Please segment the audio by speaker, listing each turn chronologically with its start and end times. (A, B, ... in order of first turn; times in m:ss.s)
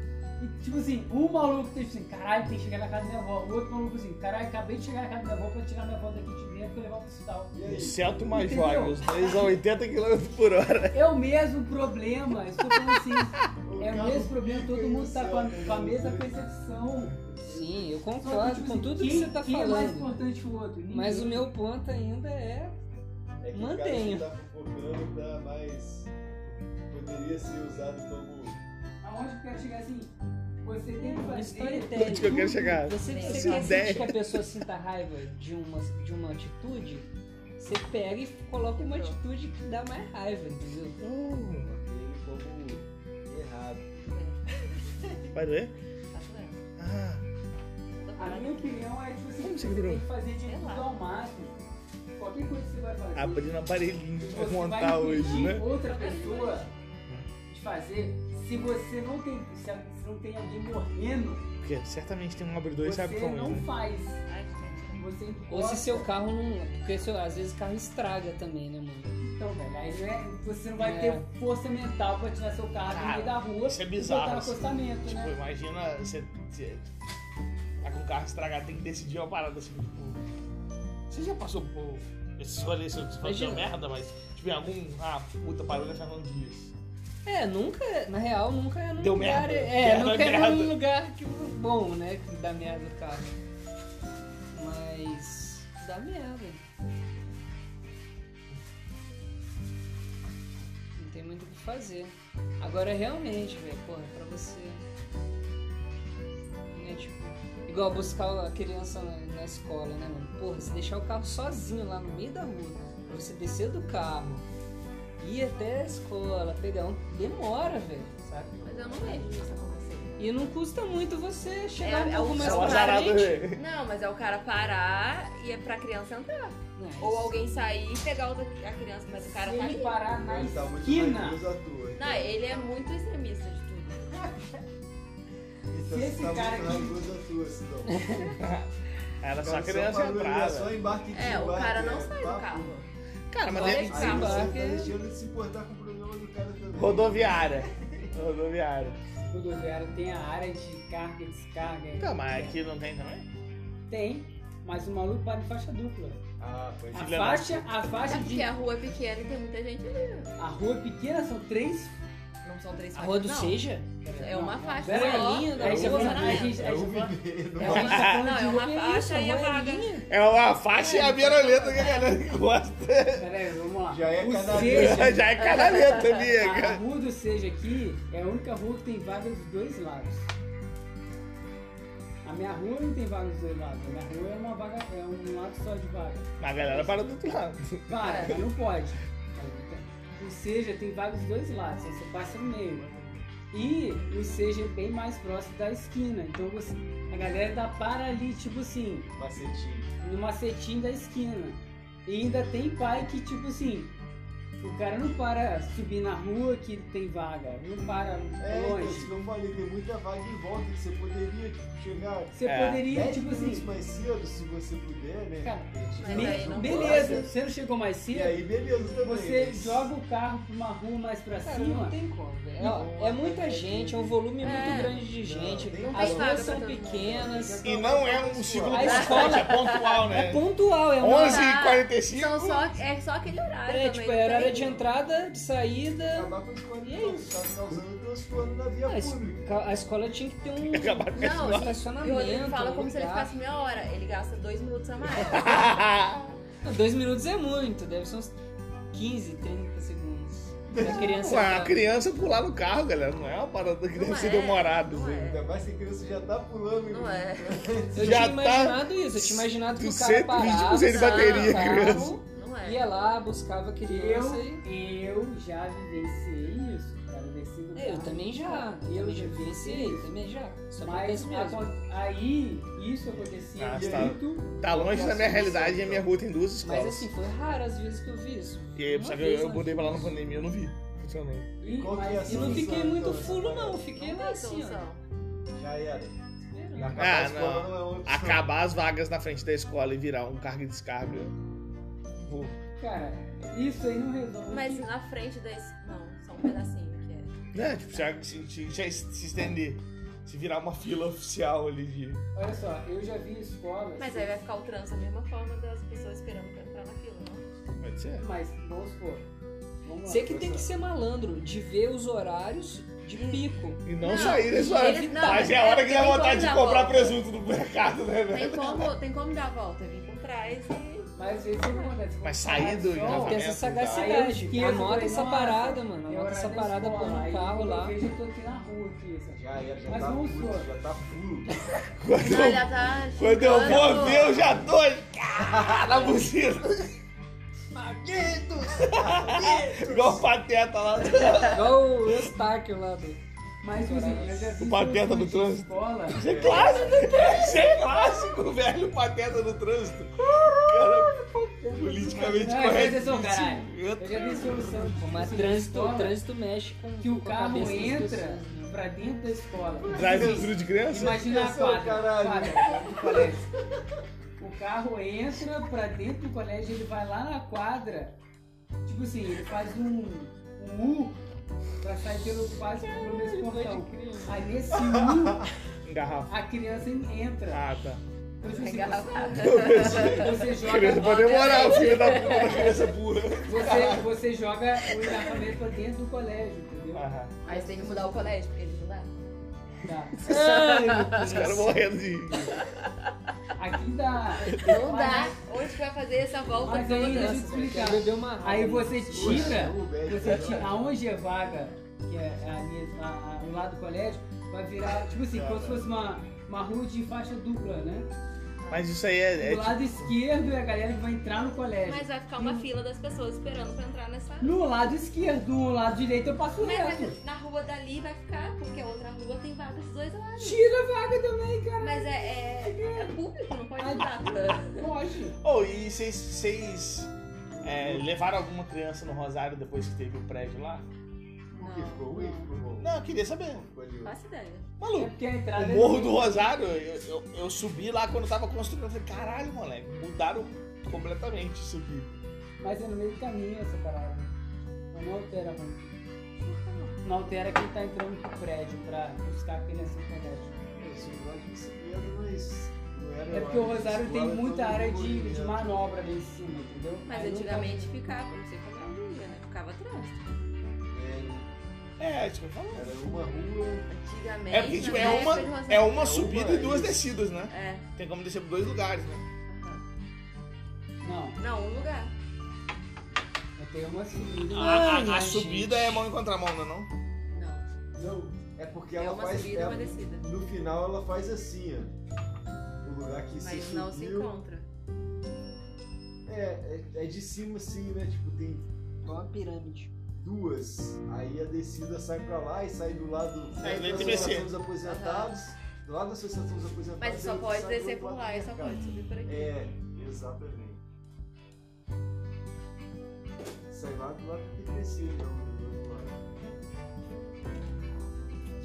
0:00.4-0:07.5 A
0:07.5-0:08.0 B
0:07.6-0:11.0 C
0:08.3-0:09.5 A
0:10.9-0:17.2 A
0:13.6-0:16.3 B
0:17.2-0:17.8 B
0:17.5-0:20.2 D
0:18.2-0:21.5 A
0:20.9-0:22.8 D
0:23.4-0:26.1 B
0:23.5-0:24.3 D
0:26.9-0:28.6 B
0:29.0-0:30.1 A
0:30.6-0:32.3 A
0:31.0-0:37.1 D
0:31.9-0:34.4 C
0:33.0-0:33.9 E
0:37.6-0:41.0 D
0:38.8-0:39.2 E
0:41.0-0:41.7 C
0:41.6-0:44.0 B
0:44.0-0:45.2 E
0:45.3-0:45.7 C
0:46.1-0:46.6 E
0:46.8-0:47.2 C
0:48.0-0:48.7 E
0:48.2-0:51.6 A
0:49.4-0:50.0 C
0:50.4-0:50.9 E
0:52.2-0:53.5 A
0:53.1-0:55.6 C
0:54.2-0:56.7 A
0:55.2-0:56.7 E
0:57.5-1:01.4 A
1:01.6-1:03.7 C
1:02.8-1:04.2 A
1:04.2-1:05.1 E
1:05.0-1:06.1 A
1:05.5-1:09.1 D
1:09.2-1:15.3 A
1:10.8-1:11.2 D
1:12.9-1:16.9 C
1:17.8-1:20.2 C
1:21.1-1:26.7 C
1:23.2-1:23.7 D
1:27.2-1:33.3 D
1:29.0-1:30.7 C
1:34.5-1:36.6 D
1:41.0-1:44.8 D
1:46.7-1:54.4 D
1:55.2-1:58.6 D
1:58.6-2:00.2 E
2:00.2-2:03.4 D
2:01.8-2:10.0 E
2:02.4-2:03.6 C
2:06.8-2:07.5 D
2:09.3-2:11.4 A
2:10.2-2:12.3 B
2:12.0-2:14.3 E
2:15.7-2:18.0 B
2:15.8-2:17.0 A
2:17.9-2:18.4 D
2:18.4-2:18.7 C
2:19.2-2:20.7 C
2:19.4-2:22.7 B
2:21.1-2:22.9 E
2:23.3-2:24.2 C
2:23.5-2:24.5 E
2:23.5-2:24.9 D
2:23.8-2:28.1 B
2:26.7-2:29.0 C
2:29.3-2:32.6 A
2:31.9-2:33.3 C
2:33.9-2:36.2 A
2:36.4-2:37.3 B
2:36.9-2:38.5 A
2:36.9-2:37.9 C
2:38.0-2:40.3 E
2:40.4-2:41.9 A
2:42.4-2:46.7 E
2:42.9-2:43.9 D
2:44.0-2:48.4 A
2:44.8-2:46.5 D
2:45.7-2:48.0 B
2:47.6-2:50.0 E
2:47.6-2:48.2 C
2:47.9-2:50.1 D
2:50.1-2:53.3 C
2:50.9-2:51.3 D
2:51.0-2:52.1 E
2:53.2-2:55.3 A
2:53.9-2:55.2 B
2:54.5-2:56.8 C
2:55.4-2:56.3 E
2:56.4-3:00.3 A
3:02.2-3:07.1 A
3:06.4-3:08.2 C
3:07.9-3:12.9 A
3:08.0-3:08.4 E
3:13.5-3:19.1 A
3:19.1-3:19.9 B
3:20.0-3:23.9 A
3:24.6-3:29.1 A
3:28.4-3:37.3 B
3:32.3-3:33.7 A
3:32.4-3:32.9 C
3:35.4-3:38.4 A
3:36.0-3:37.2 E
3:38.1-3:39.9 B
3:39.0-3:42.0 A
3:41.4-3:47.6 D
3:42.6-3:46.5 B
3:44.4-3:45.0 E
3:45.8-3:47.5 E
3:47.0-3:48.9 B
3:47.6-3:50.4 C
3:48.7-3:49.5 A
3:48.8-3:50.0 E
3:48.8-3:49.5 D
3:50.1-3:51.5 D
3:51.0-3:52.8 C
3:51.1-3:54.8 E
3:53.7-3:57.4 D
3:56.1-3:59.5 B
3:58.9-4:03.3 D
4:00.6-4:01.7 C
4:01.1-4:05.8 E
4:05.2-4:06.4 C
4:06.6-4:08.3 D
4:08.9-4:11.8 D
4:10.7-4:11.4 B
4:10.9-4:15.2 C
4:13.9-4:15.5 E
4:15.1-4:18.4 B
4:16.9-4:17.7 E
4:17.9-4:24.6 D
4:18.0-4:22.1 C
4:20.8-4:22.9 E
4:23.9-4:30.1 A
4:27.7-4:31.6 D
4:30.8-4:34.5 A
4:33.5-4:37.1 C
4:33.7-4:36.1 B
4:36.6-4:40.4 D
4:38.8-4:41.5 C
4:41.6-4:42.9 A
4:41.6-4:43.8 B
4:42.2-4:44.8 D
4:43.9-4:45.0 E
4:45.5-4:46.2 B
4:46.5-4:47.0 D
4:46.7-4:48.4 B
4:47.0-4:51.3 C
4:52.2-4:52.5 C
4:52.8-4:54.9 A
4:54.5-4:57.4 E
4:57.5-5:02.2 C
5:02.3-5:04.3 A
5:04.0-5:07.4 E
5:07.8-5:08.2 C
5:08.2-5:09.2 A
5:09.8-5:10.6 A
5:10.0-5:15.4 D
5:10.3-5:10.5 B
5:13.2-5:17.2 E
5:13.8-5:18.9 C
5:18.3-5:21.9 E
5:21.2-5:30.7 A
5:22.2-5:24.2 C
5:23.0-5:28.0 D
5:29.4-5:31.6 B
5:32.0-5:36.9 C
5:32.1-5:34.4 E
5:33.7-5:34.6 B
5:35.4-5:36.2 B
5:37.8-5:40.3 B
5:38.8-5:41.8 C
5:41.1-5:41.5 E
5:41.5-5:43.2 D
5:43.6-5:46.3 A
5:43.7-5:44.6 D
5:44.6-5:51.2 C
5:46.1-5:46.9 B
5:46.4-5:48.1 D
5:50.2-5:52.9 D
5:51.8-5:54.7 C
5:52.3-5:56.2 A
5:54.7-5:58.7 D
5:57.0-6:03.4 A
5:59.8-6:03.3 B
5:59.9-6:01.2 C
6:04.4-6:08.2 A
6:08.9-6:11.2 A
6:11.8-6:15.5 A
6:12.5-6:14.5 D
6:14.9-6:15.5 B
6:15.8-6:16.3 C
6:16.3-6:17.6 A
6:17.5-6:18.0 C
6:18.4-6:21.6 A
6:18.4-6:22.9 E
6:19.4-6:24.1 C
6:23.4-6:28.3 A
6:25.0-6:25.3 C
6:26.9-6:27.4 C
6:27.4-6:29.1 E
6:29.8-6:30.1 A
6:30.2-6:32.6 C
6:30.2-6:31.7 E
6:30.3-6:31.8 D
6:32.5-6:33.1 E
6:33.6-6:35.4 A
6:34.5-6:34.9 C
6:34.5-6:38.0 E
6:36.6-6:48.1 A
6:36.8-6:39.7 D
6:39.1-6:41.0 B
6:45.1-6:45.9 B
6:48.7-6:50.1 C
6:49.4-6:52.7 A
6:51.8-6:54.6 E
6:54.4-6:57.2 A
6:56.6-7:00.6 E
7:00.4-7:03.2 A
7:01.8-7:04.9 E
7:03.8-7:05.4 A
7:05.4-7:07.1 C
7:07.5-7:08.1 B
7:07.6-7:10.8 C
7:11.5-7:12.9 B
7:11.6-7:12.4 E
7:12.8-7:13.7 C
7:13.5-7:14.2 B
7:14.0-7:14.7 E
7:14.8-7:22.2 C
7:14.9-7:16.5 A
7:22.6-7:24.3 A
7:24.9-7:25.9 A
7:27.0-7:30.6 A
7:30.8-7:35.7 B
7:33.3-7:37.9 A
7:37.0-7:40.2 E
7:40.9-7:41.5 B
7:42.0-7:42.9 C
7:42.7-7:43.9 B
7:43.9-7:46.7 E
7:44.5-7:49.3 C
7:45.0-7:45.4 B
7:46.2-7:47.1 B
7:47.5-7:47.8 E
7:49.5-7:49.8 E
7:51.0-7:51.4 A
7:51.4-7:52.1 E
7:53.6-7:54.9 A
7:54.5-7:56.0 D
7:54.5-7:56.9 C
7:57.3-7:57.6 E
7:57.9-8:02.0 B
7:59.0-8:00.2 E
8:02.8-8:04.3 B
8:03.4-8:04.7 E
8:06.2-8:08.7 B
8:09.0-8:09.9 D
8:10.1-8:20.8 B
8:13.6-8:14.5 C
8:13.9-8:15.4 E
8:17.0-8:19.5 E
8:18.6-8:19.0 D
8:23.7-8:26.2 B